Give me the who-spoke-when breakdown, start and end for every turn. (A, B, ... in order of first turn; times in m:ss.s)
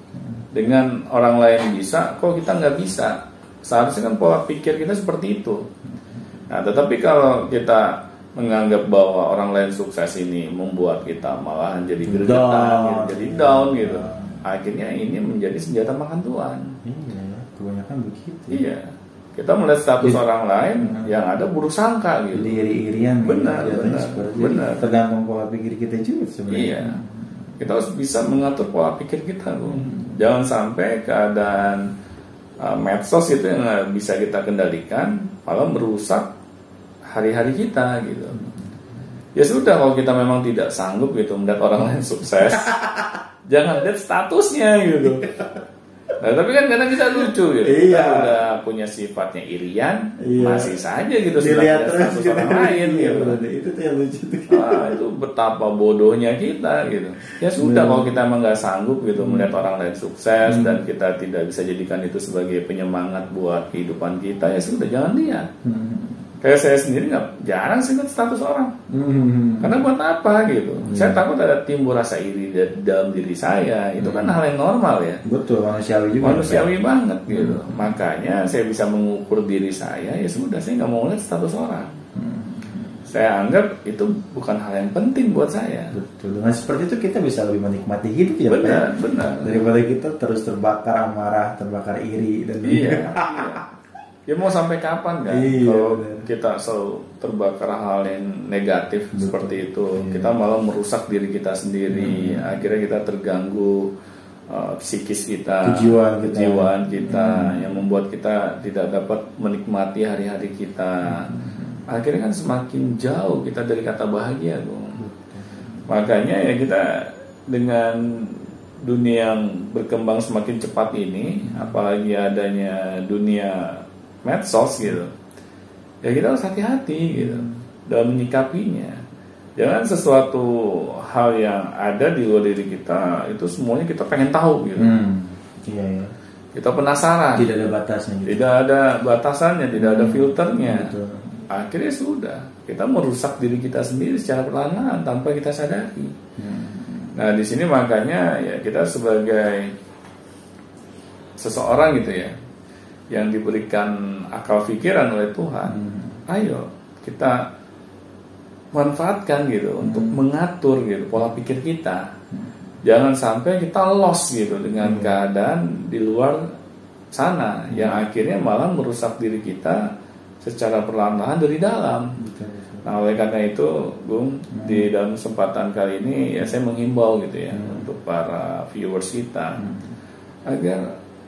0:00.5-0:05.7 A
0:06.5-0:16.7 A
0:12.0-0:14.4 B
0:16.8-0:18.6 B
0:18.5-0:18.8 A
0:19.3-0:22.6 A
0:20.8-0:21.1 B
0:22.3-0:27.5 B
0:23.2-0:24.8 A
0:26.5-0:27.0 A
0:27.6-0:31.9 A
0:29.7-0:30.2 B
0:32.6-0:36.3 A
0:37.1-0:38.4 A
0:38.4-0:38.7 B
0:39.4-0:42.7 A
0:42.3-0:43.2 B
0:43.5-0:45.3 A
0:45.0-0:45.5 B
0:46.2-0:53.4 A
0:47.6-0:48.4 B
0:50.2-0:50.8 B
0:51.4-0:55.0 B
0:54.5-1:05.5 A
0:57.4-0:58.1 B
0:59.2-0:59.5 B
1:00.4-1:00.8 B
1:05.6-1:06.3 B
1:06.4-1:08.7 A
1:08.9-1:09.8 B
1:09.6-1:15.2 A
1:10.8-1:11.2 B
1:14.0-1:14.4 B
1:15.2-1:16.7 B
1:16.2-1:21.9 A
1:17.3-1:18.0 B
1:22.1-1:23.0 B
1:23.1-1:26.0 A
1:25.9-1:28.9 B
1:28.5-1:29.7 A
1:29.4-1:33.6 B
1:32.6-1:33.6 A
1:34.3-1:43.9 A
1:35.3-1:36.3 B
1:39.1-1:40.3 B
1:41.9-1:42.5 B
1:44.5-1:51.3 A
1:45.6-1:47.8 B
1:51.0-1:51.8 B
1:51.9-1:55.0 A
1:55.0-1:56.0 B
1:55.9-2:05.1 A
2:01.4-2:01.8 B
2:06.0-2:09.0 A
2:07.1-2:07.6 B
2:09.6-2:14.9 A
2:14.8-2:16.1 B
2:16.5-2:17.5 A
2:17.3-2:18.5 B
2:18.2-2:20.9 A
2:19.7-2:21.4 B
2:21.5-2:26.1 A
2:26.4-2:27.2 B
2:27.1-2:29.7 A
2:31.4-2:32.3 A
2:33.1-2:37.4 A
2:35.6-2:36.2 B
2:38.7-2:42.1 A
2:39.8-2:40.2 B
2:42.8-2:46.5 A
2:44.8-2:45.2 B
2:47.1-2:49.8 A
2:47.7-2:48.0 B
2:50.4-2:52.1 A
2:52.2-2:52.9 B
2:52.8-2:59.6 A
2:54.5-2:54.9 B
2:57.5-2:57.9 B
2:59.6-2:59.9 B
3:00.5-3:00.8 A